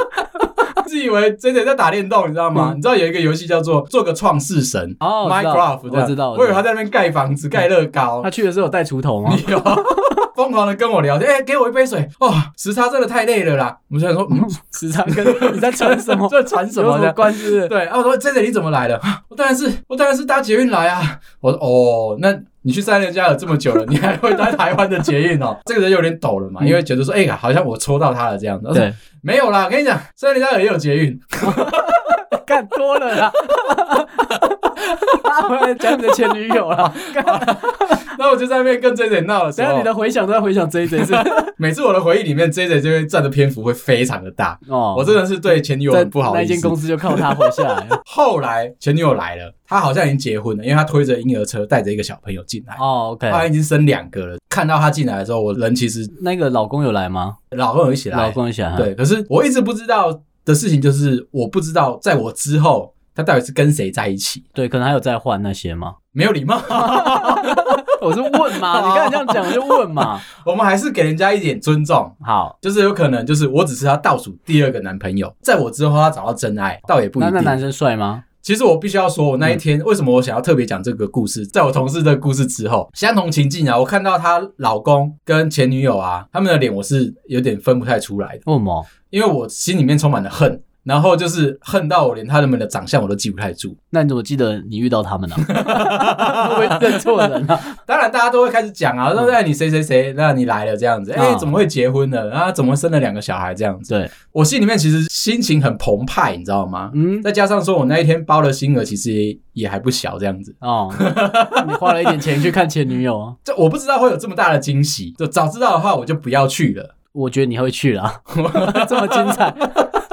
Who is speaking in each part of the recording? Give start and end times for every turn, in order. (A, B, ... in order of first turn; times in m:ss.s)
0:00.8-0:08.3 A
0:05.0-0:06.6 B
0:08.2-0:10.1 B
0:09.3-0:32.0 A
0:14.4-0:17.7 B
0:28.7-0:29.0 B
0:31.4-0:38.1 B
0:35.9-0:39.9 A
0:39.6-0:41.5 B
0:41.0-0:56.1 A
0:44.7-0:48.0 B
0:52.8-0:53.4 B
0:56.1-0:57.4 B
0:57.5-1:04.4 A
0:58.1-0:58.9 B
1:04.6-1:06.0 B
1:06.1-1:17.6 A
1:06.7-1:10.2 B
1:12.2-1:12.6 B
1:17.2-1:18.2 B
1:18.4-1:28.4 A
1:28.5-1:28.9 B
1:29.1-1:33.8 A
1:33.9-1:37.8 B
1:35.5-1:37.3 A
1:37.9-1:52.4 A
1:41.2-1:41.6 B
1:46.9-1:47.3 B
1:50.6-1:53.4 B
1:53.4-1:56.9 A
1:57.1-1:59.7 B
1:58.3-1:59.9 A